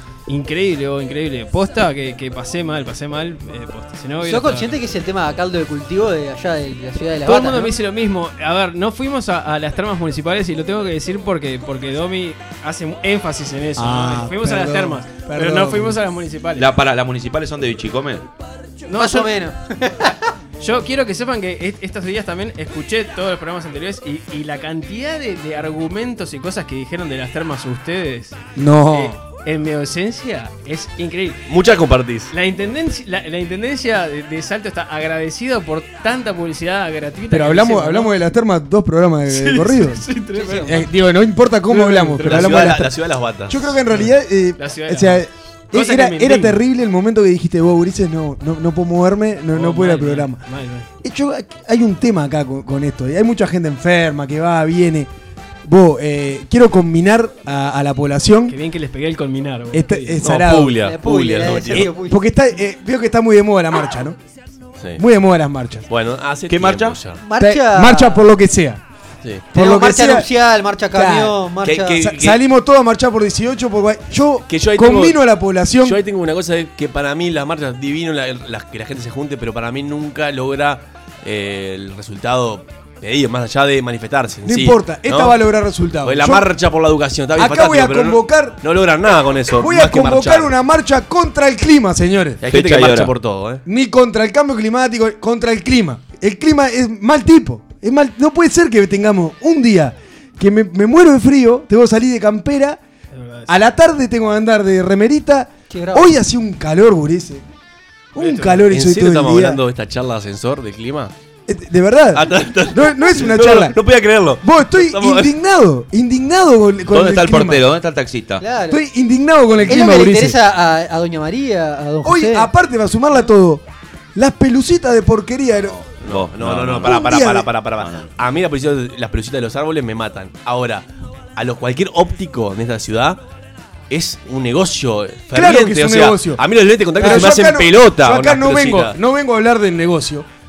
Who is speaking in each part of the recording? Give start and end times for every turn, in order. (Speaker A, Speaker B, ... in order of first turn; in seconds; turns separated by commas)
Speaker A: 0.3-4.7, Speaker B: 4.2-7.8, Speaker A: 7.2-16.7, Speaker C: 13.8-16.0, Speaker D: 16.6-18.3, Speaker A: 18.9-19.3, Speaker B: 18.9-20.2, Speaker A: 20.6-28.4, Speaker C: 28.6-29.2, Speaker A: 28.9-31.5, Speaker E: 31.5-32.3, Speaker A: 32.3-38.1, Speaker C: 37.3-40.0, Speaker A: 39.3-40.9, Speaker B: 40.3-40.8, Speaker C: 40.6-42.9, Speaker A: 41.7-42.6, Speaker E: 42.2-43.7, Speaker C: 43.5-50.4, Speaker A: 43.9-46.6, Speaker A: 49.5-50.9, Speaker C: 51.0-55.1, Speaker C: 55.6-58.6, Speaker A: 58.5-60.3, Speaker C: 59.7-60.8, Speaker E: 60.2-61.9, Speaker B: 60.8-62.2, Speaker C: 61.9-64.2, Speaker C: 65.0-65.9, Speaker E: 65.9-67.2, Speaker D: 66.5-67.0, Speaker B: 67.2-68.3, Speaker C: 67.4-68.8, Speaker C: 69.5-70.3, Speaker B: 69.5-72.1, Speaker C: 70.9-71.4, Speaker D: 71.6-72.4, Speaker C: 72.0-76.0, Speaker E: 74.5-75.2, Speaker E: 75.8-85.4, Speaker C: 84.5-86.5, Speaker E: 86.0-90.5, Speaker C: 87.4-88.6, Speaker C: 89.5-92.4, Speaker E: 92.4-93.6, Speaker D: 92.5-93.1, Speaker C: 93.7-102.8, Speaker A: 103.1-103.6, Speaker C: 103.5-107.5, Speaker B: 105.7-106.2, Speaker C: 108.2-109.6, Speaker A: 108.2-108.7, Speaker E: 108.7-111.1, Speaker C: 111.5-113.8, Speaker E: 112.1-115.3, Speaker C: 114.4-117.7, Speaker D: 116.9-118.5, Speaker B: 118.4-118.8, Speaker C: 118.7-120.4, Speaker B: 119.7-122.5, Speaker C: 122.0-125.8, Speaker D: 125.6-128.1, Speaker E: 126.0-133.2, Speaker C: 126.8-127.5, Speaker E: 133.9-139.0, Speaker C: 135.3-136.4, Speaker C: 136.9-140.3